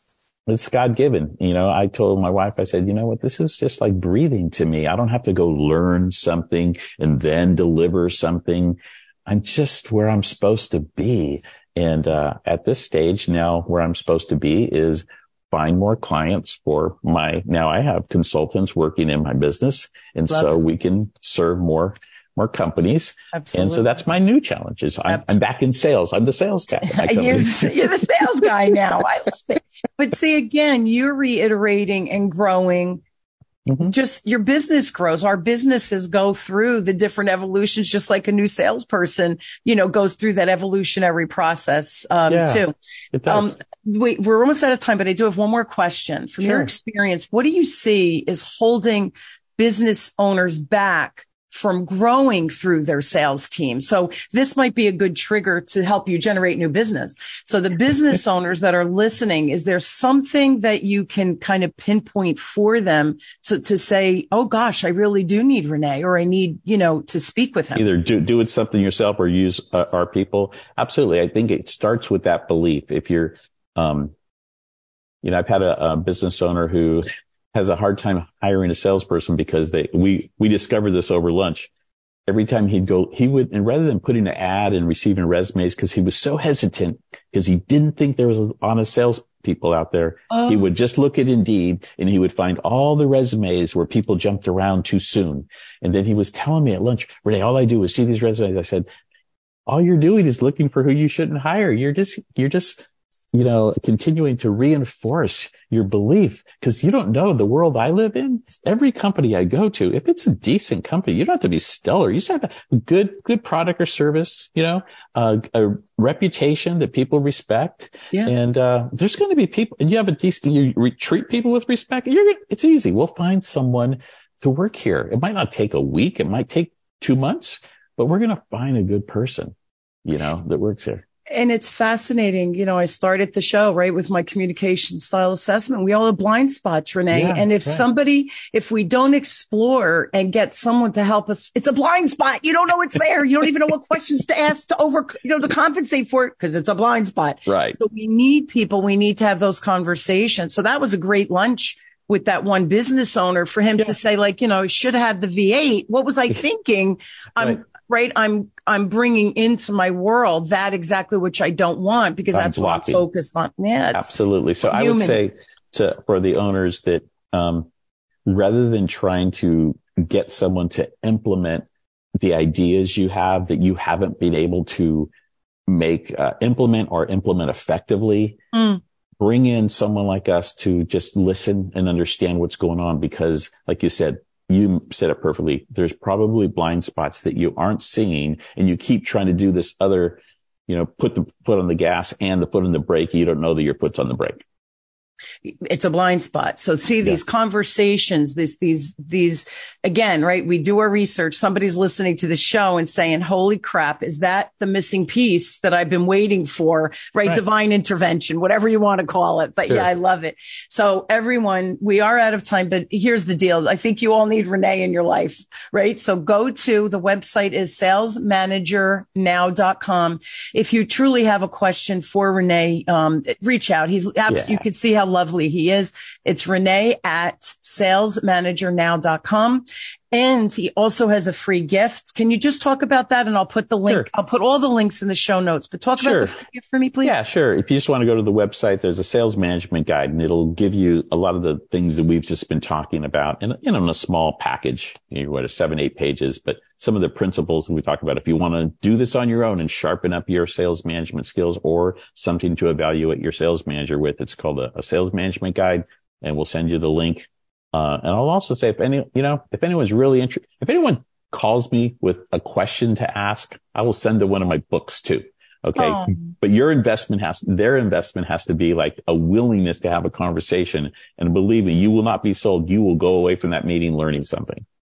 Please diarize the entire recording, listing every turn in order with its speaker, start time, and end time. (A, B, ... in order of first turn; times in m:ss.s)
0:00.5-0:27.7 A
0:20.3-0:20.6 B
0:23.3-0:23.8 B
0:26.8-0:33.0 B
0:33.7-0:33.9 A
0:33.8-0:42.7 B
0:42.3-0:43.5 A
0:43.3-1:07.8 B
0:46.4-0:46.7 A
1:07.8-1:14.1 A
1:15.2-1:21.7 A
1:22.3-1:38.9 A
1:30.3-1:30.6 B
1:39.7-1:42.8 A
1:43.3-2:11.0 A
2:11.3-2:44.1 B
2:17.1-2:17.8 A
2:27.5-2:27.8 A
2:42.3-2:43.0 A
2:43.9-2:47.7 A
2:44.6-2:45.3 B
2:48.2-2:51.7 A
2:52.2-2:55.1 A
2:55.7-2:58.4 A
2:58.5-2:58.8 B
2:59.2-3:14.4 A
3:15.4-3:57.2 B
3:44.3-3:44.6 A
3:56.0-3:56.4 A
3:57.0-4:34.6 A
4:25.8-4:26.3 B